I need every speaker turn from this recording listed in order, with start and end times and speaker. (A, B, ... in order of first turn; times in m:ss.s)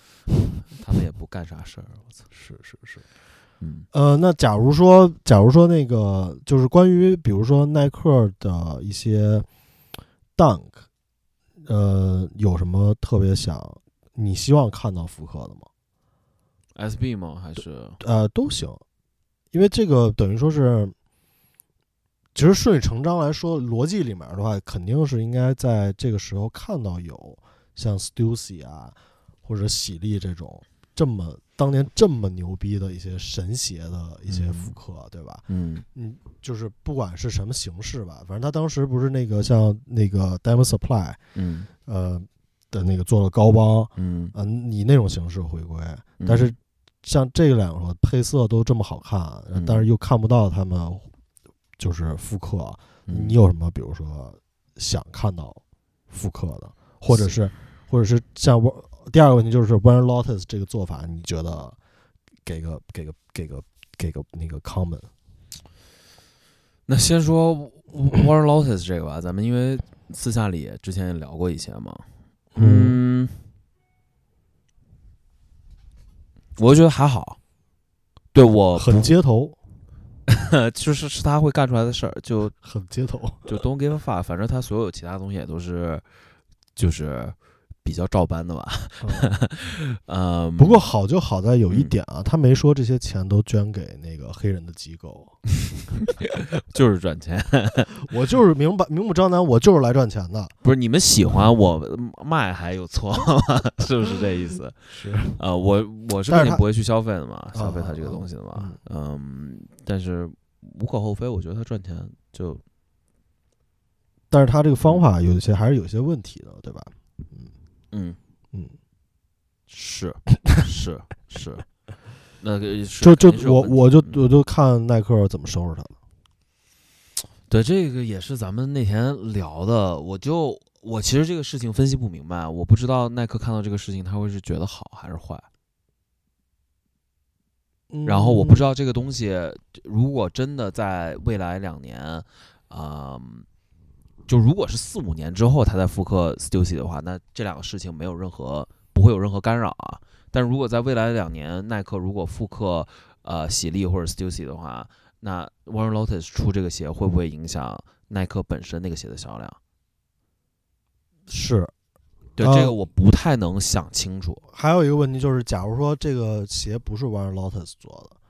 0:00.7-0:02.3 A
0:02.3-0:03.0 B
0:03.6-0:03.9 A
0:03.9-0:09.5 B
0:10.4-0:10.8 B
0:11.6-0:15.7 B
0:16.8-0:18.0 A
0:18.0-0:18.8 B
0:19.5-0:21.0 B
0:22.4-0:41.2 B
0:34.3-0:34.8 A
0:35.5-0:35.8 A
0:41.4-0:41.7 A
0:41.9-0:51.1 B
0:44.0-0:44.4 A
0:46.2-0:46.5 A
0:49.5-0:49.9 A
0:51.8-1:01.8 B
0:53.1-0:53.4 A
0:57.1-0:57.4 A
1:02.4-1:05.1 B
1:06.9-1:12.0 A
1:12.6-1:13.0 B
1:12.6-1:13.4 A
1:16.6-1:17.4 A
1:18.3-1:19.1 A
1:18.8-1:19.6 B
1:20.3-1:22.5 A
1:22.6-1:23.5 B
1:23.5-1:26.0 A
1:26.8-1:30.9 A
1:29.0-1:29.3 B
1:30.6-1:35.4 B
1:36.0-1:38.0 A
1:38.0-1:40.5 B
1:40.6-1:44.8 A
1:44.9-1:45.4 B
1:45.3-1:52.6 A
1:46.3-1:46.6 B
1:47.5-1:48.8 B
1:54.3-1:57.5 B
1:57.9-1:58.2 A
1:59.7-2:01.6 A
2:02.4-2:04.2 A
2:03.0-2:06.0 B
2:07.5-2:15.5 A
2:17.9-2:18.6 B
2:18.0-2:23.5 A
2:24.3-2:39.6 A
2:41.3-2:41.7 B
2:42.4-2:44.4 A
2:42.4-2:42.8 B
2:44.5-2:48.2 B